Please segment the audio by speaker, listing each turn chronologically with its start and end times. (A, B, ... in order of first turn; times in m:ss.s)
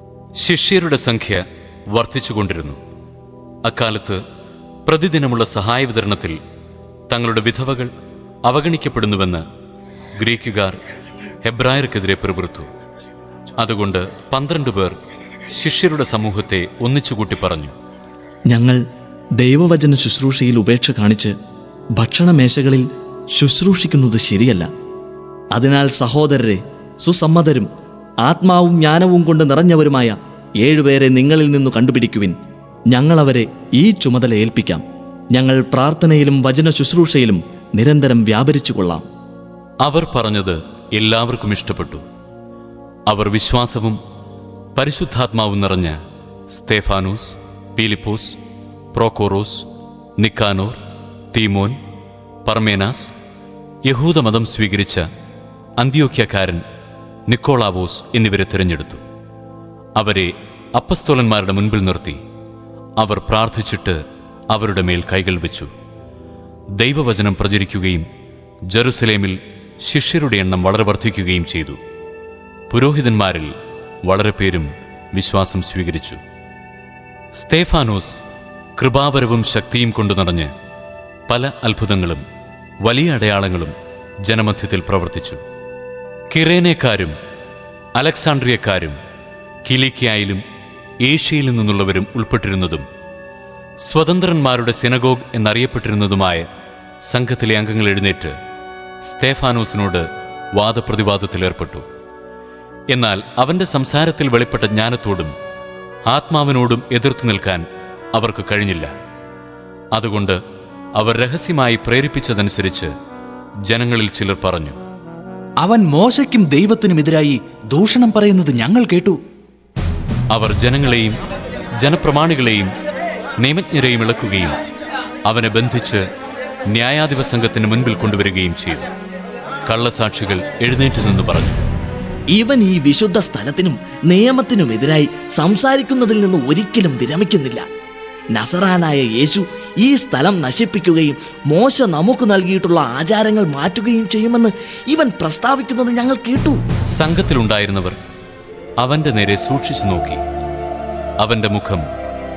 0:00.4-0:02.8 A
0:03.6-0:04.2 A
0:04.9-0:06.4 A
0:07.1-0:07.9 A
0:08.4-0:09.4 A
0:10.2-0:10.7 A
0:11.4-0:12.7 A
0:13.6-0:15.0 A
0:15.5-0:17.7 A
0:18.5-0:18.8 B
0:19.4-0:21.3 B
0:22.0-0:22.8 B
0:23.4-0:24.7 B
0:25.5-0:27.7 B
0:28.2-0:32.3 B
0:32.9-0:39.0 B
0:39.8-0:42.0 A
0:43.1-0:44.0 A
0:44.8-0:46.0 A
0:46.5-0:48.4 A
0:48.9-0:49.7 A
0:50.2-0:50.8 A
0:51.3-0:51.8 A
0:52.4-0:53.1 A
0:53.9-0:55.1 A
0:55.8-0:56.6 A
0:57.3-0:59.0 A
1:00.0-1:02.2 A
1:03.0-1:04.0 A
1:04.5-1:05.7 A
1:06.8-1:08.1 A
1:08.7-1:11.8 A
1:12.7-1:13.5 A
1:14.0-1:16.2 A
1:17.3-1:18.2 A
1:18.8-1:20.5 A
1:21.3-1:22.2 A
1:22.8-1:25.4 A
1:26.3-1:27.1 A
1:28.0-1:29.0 A
1:29.6-1:30.4 A
1:31.0-1:32.8 A
1:33.8-1:36.4 A
1:37.0-1:38.4 A
1:39.0-1:41.8 A
1:42.9-1:45.3 A
1:46.1-1:48.9 A
1:49.9-1:50.4 A
1:51.0-1:52.9 A
1:53.7-1:54.8 A
1:55.6-1:59.2 C
2:00.3-2:01.2 A
2:01.8-2:02.7 A
2:03.4-2:04.6 A
2:05.2-2:06.0 A
2:06.7-2:08.9 A
2:09.6-2:11.6 A
2:12.3-2:17.6 B
2:18.3-2:26.6 B
2:26.9-2:28.0 A
2:28.8-2:30.2 A
2:31.2-2:31.8 A